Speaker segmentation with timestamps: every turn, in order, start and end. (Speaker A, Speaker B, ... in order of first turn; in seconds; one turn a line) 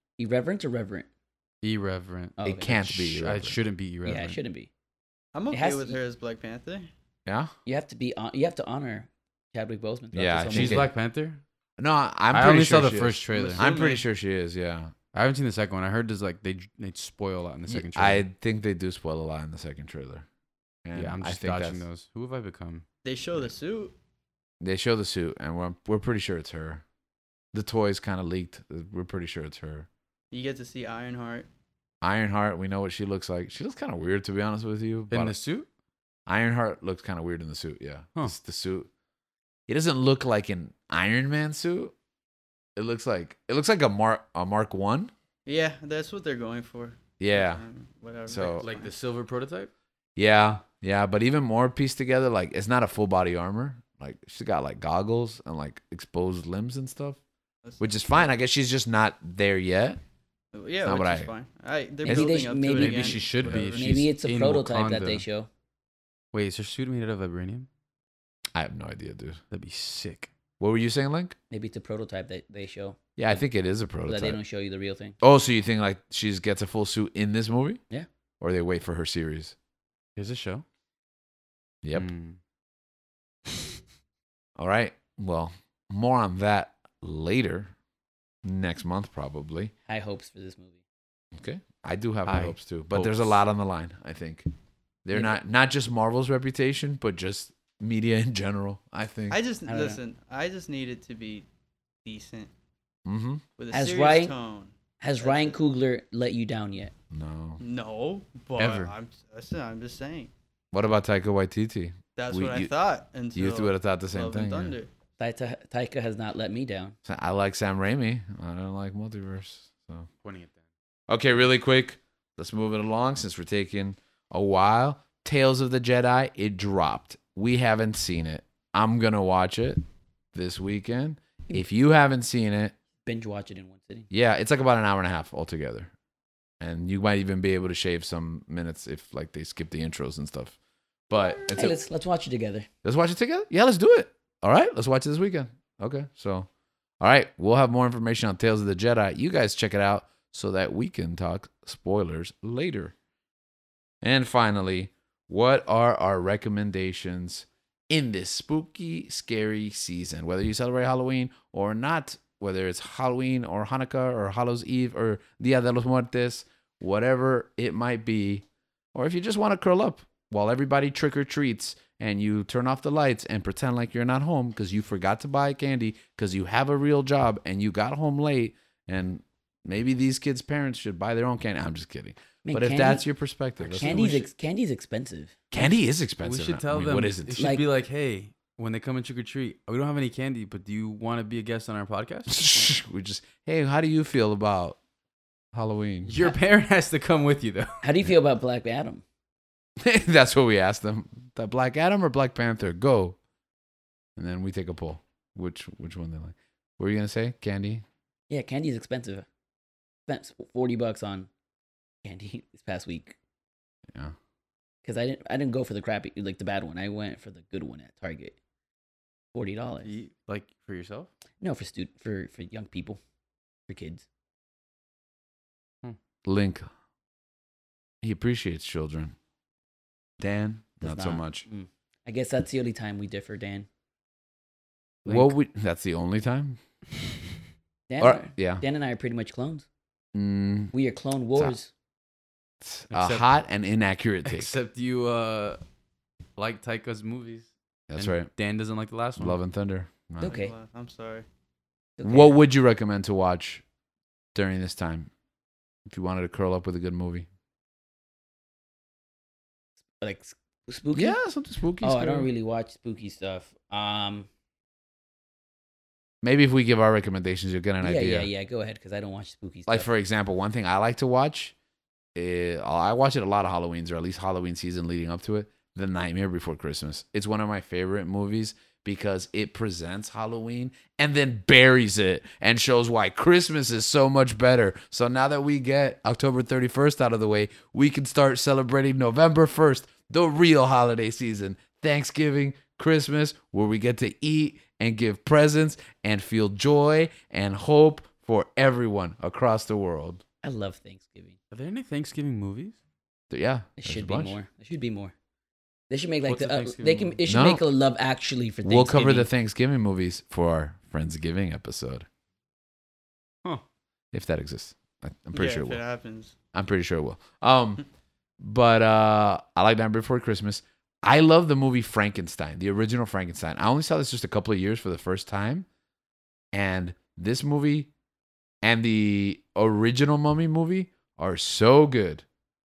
Speaker A: 0.2-1.1
Speaker B: 1.6-4.4
Speaker A: 2.4-2.8
Speaker C: 2.4-3.6
Speaker A: 4.0-4.7
Speaker D: 5.3-6.9
Speaker A: 5.5-6.0
Speaker C: 7.3-7.5
Speaker A: 7.7-10.9
Speaker C: 10.1-10.9
Speaker B: 10.5-11.4
Speaker C: 11.8-14.9
Speaker B: 12.3-13.6
Speaker D: 13.3-14.0
Speaker B: 15.1-18.2
Speaker C: 17.7-20.2
Speaker C: 20.8-21.8
Speaker B: 20.9-22.8
Speaker D: 23.1-23.9
Speaker C: 24.6-26.8
Speaker C: 27.5-29.9
Speaker D: 30.3-31.5
Speaker C: 32.0-35.4
Speaker B: 35.1-35.7
Speaker C: 36.3-38.9
Speaker C: 39.7-41.9
Speaker C: 42.8-45.1
Speaker D: 45.5-48.9
Speaker C: 47.2-47.6
Speaker C: 48.3-48.7
Speaker B: 48.6-49.7
Speaker C: 50.2-57.2
Speaker D: 57.6-58.3
Speaker C: 57.8-60.0
Speaker D: 60.5-64.1
Speaker C: 60.8-61.3
Speaker A: 62.0-65.5
Speaker B: 62.7-65.2
Speaker B: 66.3-67.7
Speaker C: 68.5-69.4
Speaker B: 69.5-70.3
Speaker C: 70.6-71.3
Speaker A: 71.5-73.4
Speaker C: 73.2-74.4
Speaker A: 74.0-75.1
Speaker C: 75.2-77.8
Speaker C: 78.4-79.5
Speaker B: 80.2-80.6
Speaker B: 81.9-82.4
Speaker C: 84.6-87.7
Speaker C: 88.4-89.7
Speaker A: 89.9-90.8
Speaker C: 91.3-94.5
Speaker B: 92.3-93.4
Speaker C: 95.0-99.4
Speaker A: 95.1-95.4
Speaker D: 99.3-101.5
Speaker A: 99.6-100.0
Speaker D: 102.0-102.5
Speaker C: 103.0-103.4
Speaker D: 103.6-105.6
Speaker A: 103.7-104.3
Speaker A: 105.0-106.9
Speaker C: 107.1-107.6
Speaker D: 107.6-110.3
Speaker B: 108.6-108.9
Speaker C: 110.7-112.7
Speaker D: 112.2-114.9
Speaker C: 113.3-114.7
Speaker A: 115.2-117.0
Speaker C: 117.0-120.1
Speaker B: 120.2-120.6
Speaker C: 121.1-129.8
Speaker C: 130.3-132.7
Speaker A: 133.1-134.1
Speaker C: 134.1-135.9
Speaker C: 136.6-140.6
Speaker C: 141.1-141.8
Speaker A: 141.5-142.7
Speaker C: 142.8-146.5
Speaker C: 147.0-152.9
Speaker C: 154.0-184.3
Speaker A: 182.4-183.1
Speaker A: 183.6-185.4
Speaker C: 185.5-187.4
Speaker B: 186.2-192.3
Speaker A: 187.4-187.6
Speaker C: 192.3-194.8
Speaker C: 195.5-196.1
Speaker B: 196.1-197.8
Speaker A: 197.8-199.0
Speaker C: 199.8-203.2
Speaker C: 204.2-207.8
Speaker A: 208.3-209.3
Speaker A: 210.1-211.3
Speaker A: 212.0-213.2
Speaker A: 214.8-218.3
Speaker A: 219.3-220.0
Speaker B: 219.8-221.1
Speaker A: 221.4-223.0
Speaker A: 223.7-224.1
Speaker C: 226.2-226.7
Speaker C: 228.0-229.1
Speaker C: 230.2-231.4
Speaker A: 230.8-233.7
Speaker B: 235.1-235.3
Speaker C: 235.1-236.6
Speaker A: 237.9-239.7
Speaker C: 238.0-238.6
Speaker C: 240.1-240.7
Speaker A: 240.7-241.7
Speaker C: 242.6-244.5
Speaker B: 242.9-243.3
Speaker B: 244.3-245.6
Speaker B: 246.4-249.4
Speaker C: 247.9-248.3
Speaker C: 249.2-250.4
Speaker A: 250.2-250.5
Speaker D: 250.2-251.3
Speaker A: 252.0-252.4
Speaker C: 252.0-253.6
Speaker C: 254.3-255.1
Speaker C: 255.9-257.3
Speaker A: 260.0-261.2
Speaker C: 260.9-262.3
Speaker A: 261.8-264.3
Speaker C: 266.2-268.3
Speaker A: 267.8-269.9
Speaker C: 269.7-271.5
Speaker C: 272.1-300.2
Speaker A: 300.4-301.4
Speaker B: 301.5-302.8
Speaker C: 303.3-304.4
Speaker A: 303.8-305.1
Speaker A: 305.9-309.3
Speaker B: 306.3-307.2
Speaker C: 307.3-307.6
Speaker C: 308.6-312.1
Speaker C: 314.1-315.8
Speaker D: 315.3-316.3
Speaker C: 316.5-317.8
Speaker C: 318.4-325.7
Speaker C: 326.5-327.9
Speaker C: 328.6-332.2